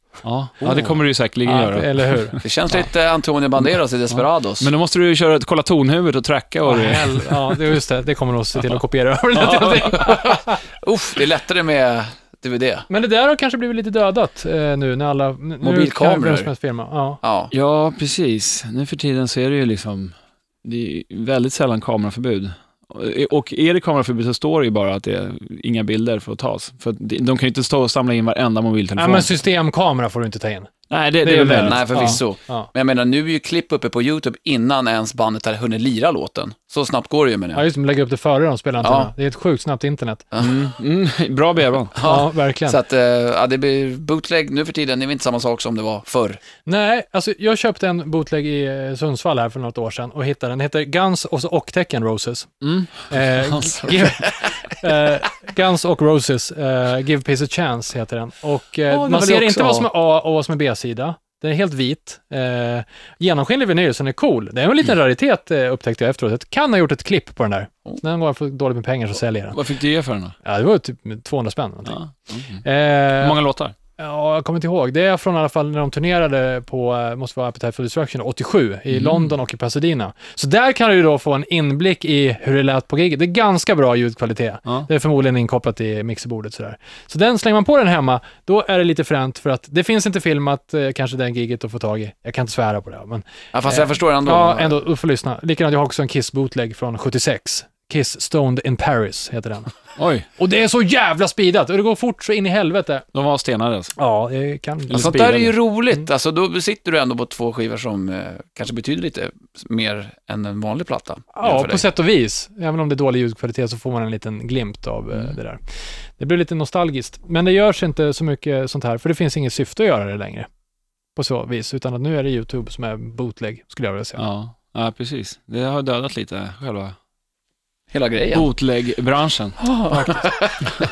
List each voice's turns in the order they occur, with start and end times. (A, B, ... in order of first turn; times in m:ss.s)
0:00.2-0:02.5 A
0:00.6-0:02.4 B
0:02.4-0:04.7 C
0:04.6-0:07.6 A
0:06.6-0:10.6 B
0:09.3-0:09.9 A
0:09.9-0:12.9 C
0:12.9-0:17.2 B
0:15.6-0:16.5 C
0:17.2-0:17.5 C
0:17.5-0:29.3 A
0:29.0-0:30.7 B
0:30.9-0:32.2 A
0:31.2-0:32.7 B
0:31.6-0:37.6 C
0:37.5-0:40.2 B
0:38.8-0:39.1 C
0:40.4-0:41.9 A
0:41.9-0:46.4 C
0:42.0-0:42.8 B
0:46.6-1:09.6 B
0:52.6-0:54.1 A
0:58.9-0:59.9 A
1:09.5-1:10.4 A
1:10.4-1:12.0 B
1:11.8-1:12.6 A
1:12.6-1:13.4 B
1:13.2-1:13.7 A
1:14.0-1:39.7 B
1:18.9-1:19.3 A
1:33.5-1:34.7 C
1:40.0-1:40.2 A
1:40.3-1:43.0 B
1:43.1-1:43.9 A
1:44.0-1:45.1 B
1:44.9-1:45.5 A
1:44.9-1:51.9 C
1:51.3-1:55.6 B
1:56.2-2:00.5 B
2:01.2-2:04.2 B
2:04.2-2:06.9 A
2:07.9-2:08.5 C
2:08.3-2:09.6 A
2:09.6-2:10.6 C
2:09.9-2:10.3 B